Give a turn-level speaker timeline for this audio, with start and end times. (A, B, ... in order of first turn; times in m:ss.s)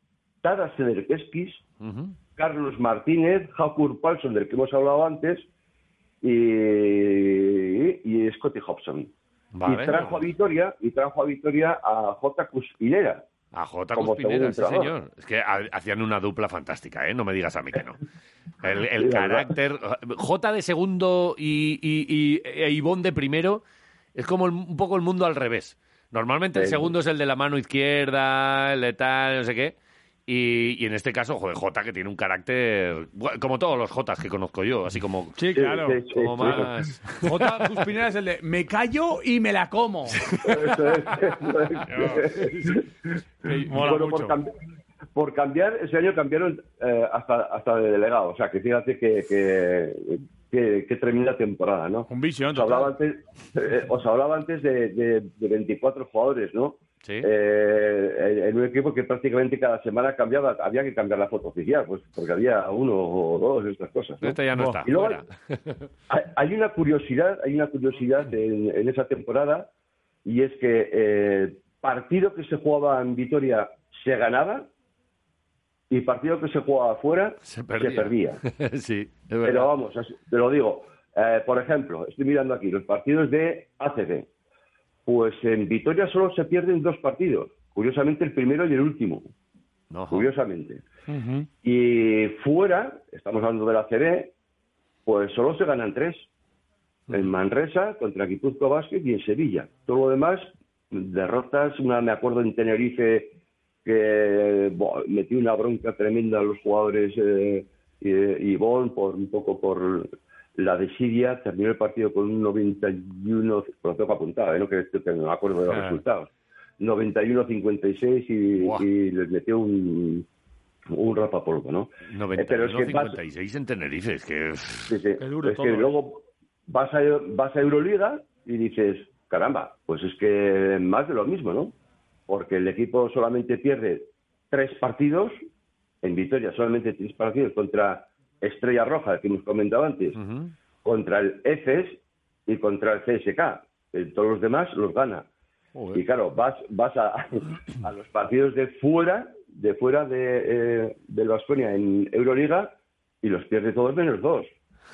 0:00.4-0:01.6 A
0:01.8-0:02.1 B
0:02.4-0:05.4 A
0:06.2-0:09.1 A
0:09.5-0:10.2 B
0:09.6-0:13.2 A
0:13.5-0:18.0 B
0:14.0-0:14.9 A
0:18.6-0:23.6 B
0:19.0-0:19.5 A
0:24.1-0:29.7 B
0:26.5-0:26.9 A
0:30.3-0:35.4 B
0:35.4-0:36.7 C
0:35.5-0:36.7 A
0:36.1-0:37.7 B
0:37.2-0:40.2 C
0:40.2-0:40.6 B
0:40.5-0:42.8 A
0:41.9-0:42.2 C
0:41.9-0:42.7 B
0:43.5-0:44.3 C
0:43.7-0:44.5 A
0:45.1-1:05.2 A
0:52.1-0:52.9 C
1:04.2-1:05.7 B
1:04.5-1:04.8 C
1:06.1-1:09.7 A
1:10.2-1:14.7 A
1:15.9-1:18.4 A
1:17.4-1:19.7 B
1:19.4-1:24.3 A
1:25.0-1:29.3 A
1:29.9-1:30.3 B
1:30.1-1:30.8 A
1:31.1-1:31.5 C
1:31.6-1:34.3 A
1:35.0-1:36.2 A
1:37.1-1:43.3 A
1:43.8-1:56.3 A
1:55.7-1:56.0 B
1:56.8-2:00.2 A
1:58.6-1:58.8 B
2:00.9-2:03.2 A
2:02.1-2:04.9 B
2:04.9-2:11.7 A
2:05.2-2:06.0 C
2:12.3-2:15.4 A
2:16.0-2:20.2 A
2:20.2-2:20.5 B
2:20.8-2:25.2 A
2:25.8-2:26.0 B
2:25.9-2:34.5 A